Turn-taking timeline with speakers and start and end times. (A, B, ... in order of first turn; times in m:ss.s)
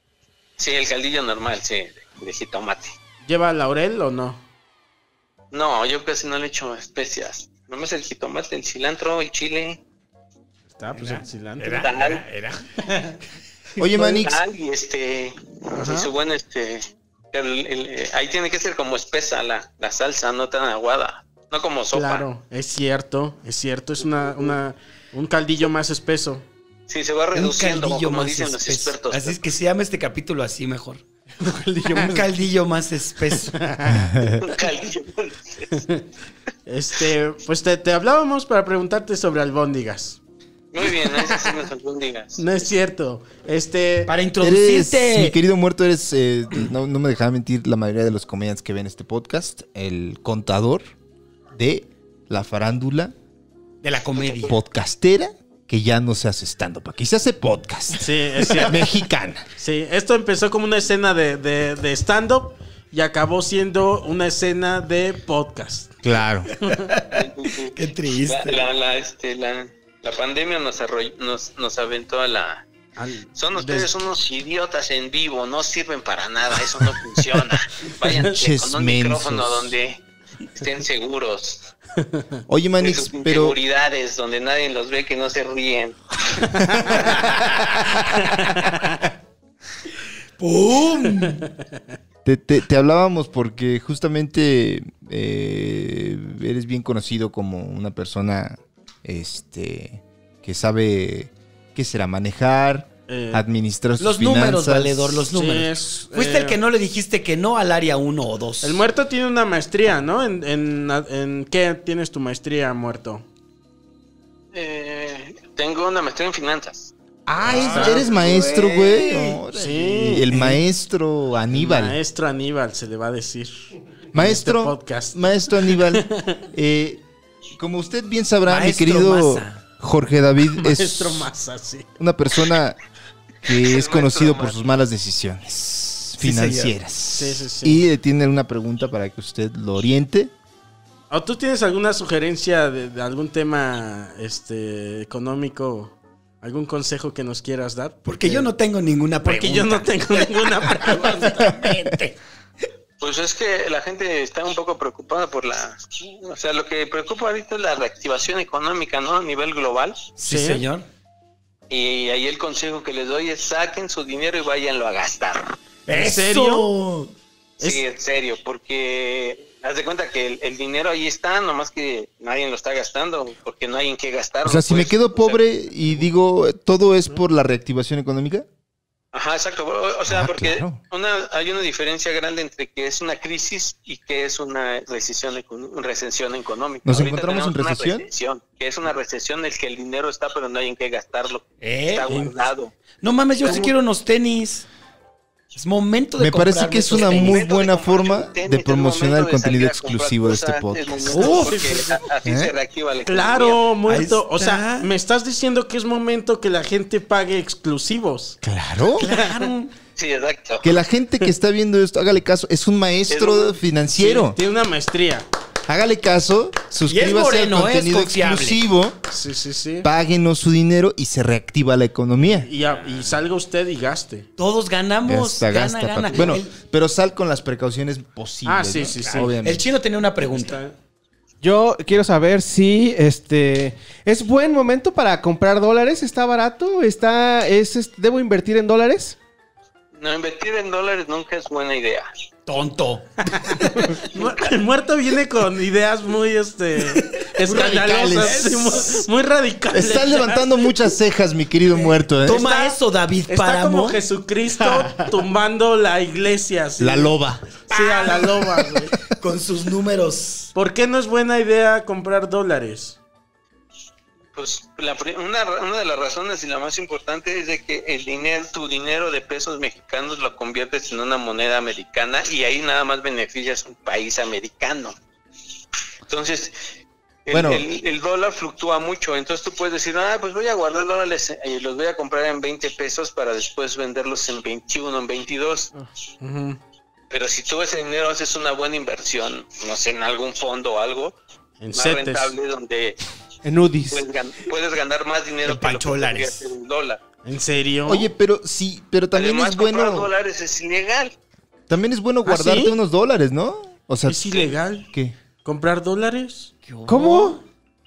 0:00.6-0:02.9 A
0:03.2-0:04.4 B
0:05.5-0:09.8 A
0:10.7-0:12.0 B
0:10.9-0:12.8 C
0:11.8-0:12.2 A
0:13.8-0:14.4 D
0:14.0-0:22.2 A
0:15.7-0:16.1 B
0:21.9-0:26.4 B
0:26.9-0:29.4 A
0:27.3-0:31.0 C
0:31.4-0:32.2 E
0:31.8-0:33.6 C
0:33.4-0:34.2 B
0:33.9-0:34.4 D
0:34.4-0:35.8 A
0:35.7-0:36.0 B
0:36.7-0:40.2 B
0:40.7-0:42.4 A
0:41.1-0:41.4 B
0:42.4-0:44.1 B
0:44.1-0:45.4 C
0:44.4-0:50.8 D
0:51.5-0:53.1 D
0:53.8-0:54.6 C
0:54.3-0:59.4 D
0:58.0-0:58.9 B
0:59.6-1:05.9 B
1:06.0-1:06.5 D
1:06.6-1:08.7 C
1:07.1-1:12.6 A
1:13.0-1:13.9 B
1:13.3-1:20.0 A
1:16.9-1:17.4 B
1:18.0-1:18.3 B
1:18.2-1:19.7 D
1:20.5-1:21.7 A
1:22.0-1:22.4 B
1:22.5-1:23.6 D
1:22.8-1:26.0 A
1:26.5-1:27.1 B
1:26.9-1:28.0 C
1:28.1-1:29.0 B
1:30.4-1:31.5 C
1:32.2-1:45.3 D
1:43.1-1:43.4 B
1:44.0-1:48.8 C
1:45.3-1:46.6 B
1:48.6-1:53.2 B
1:54.5-1:56.9 A
1:57.3-2:02.0 D
1:57.4-1:59.4 C
1:57.4-1:58.0 B
1:59.5-2:00.4 B
2:01.5-2:06.4 B
2:04.1-2:07.0 D
2:07.6-2:11.3 D
2:08.5-2:09.6 C
2:10.5-2:11.9 B
2:12.0-2:12.8 D
2:13.4-2:20.3 D
2:13.6-2:14.6 A
2:16.2-2:16.8 C
2:17.1-2:17.8 B
2:21.1-2:28.4 B
2:28.0-2:32.2 C
2:29.2-2:31.5 B
2:33.0-2:40.1 A
2:40.2-2:40.8 C
2:40.2-2:40.6 B
2:41.7-2:45.6 A
2:45.8-2:47.1 C
2:45.9-2:46.7 B
2:47.6-2:55.4 A
2:54.4-2:58.4 D
2:59.1-3:12.7 A
3:00.1-3:00.8 D
3:06.8-3:08.1 D
3:11.6-3:12.3 C
3:13.0-3:14.6 C
3:13.4-3:13.7 B
3:15.5-3:17.4 C
3:16.2-3:21.1 D
3:16.9-3:23.6 A
3:21.1-3:21.9 C
3:21.1-3:22.0 B
3:22.2-3:22.5 D
3:23.0-3:28.4 B
3:23.8-3:24.9 C
3:28.4-3:29.1 D
3:29.0-3:29.7 C
3:30.0-3:30.8 A
3:30.6-3:34.4 D
3:33.1-3:33.6 A
3:34.0-3:35.2 B
3:35.7-3:39.0 D
3:36.8-3:38.6 C
3:39.1-3:39.9 B
3:39.8-3:42.5 D
3:42.2-3:44.3 B
3:42.8-3:43.1 C
3:44.4-3:46.5 C
3:45.0-3:49.6 D
3:48.4-3:49.3 B
3:49.0-3:50.6 C
3:50.2-3:50.8 B
3:51.4-3:59.2 E
3:59.9-4:02.1 A
4:02.4-4:04.0 C
4:03.3-4:10.5 B
4:04.2-4:04.5 A
4:06.9-4:07.7 C
4:07.4-4:08.5 D
4:08.2-4:09.0 C
4:09.7-4:12.5 D
4:11.7-4:14.0 C
4:12.3-4:12.8 B
4:13.3-4:17.1 B
4:16.8-4:17.5 D
4:17.7-4:19.0 B
4:17.7-4:20.5 C
4:20.5-4:23.0 B
4:24.3-4:35.0 A
4:36.1-4:36.6 A
4:37.2-4:45.7 A
4:37.3-4:37.6 D
4:46.2-4:46.6 B
4:47.1-4:51.2 A
4:51.6-4:52.3 B
4:51.7-4:53.0 A
4:53.4-4:54.0 E
4:53.9-4:57.0 A
4:55.4-4:56.5 C
4:57.2-4:58.1 B
4:57.8-5:00.1 D
4:59.1-5:01.1 A
5:01.7-5:04.4 D
5:02.2-5:02.7 B
5:04.1-5:04.9 B
5:05.4-5:06.5 B
5:06.6-5:07.4 C
5:06.9-5:07.4 E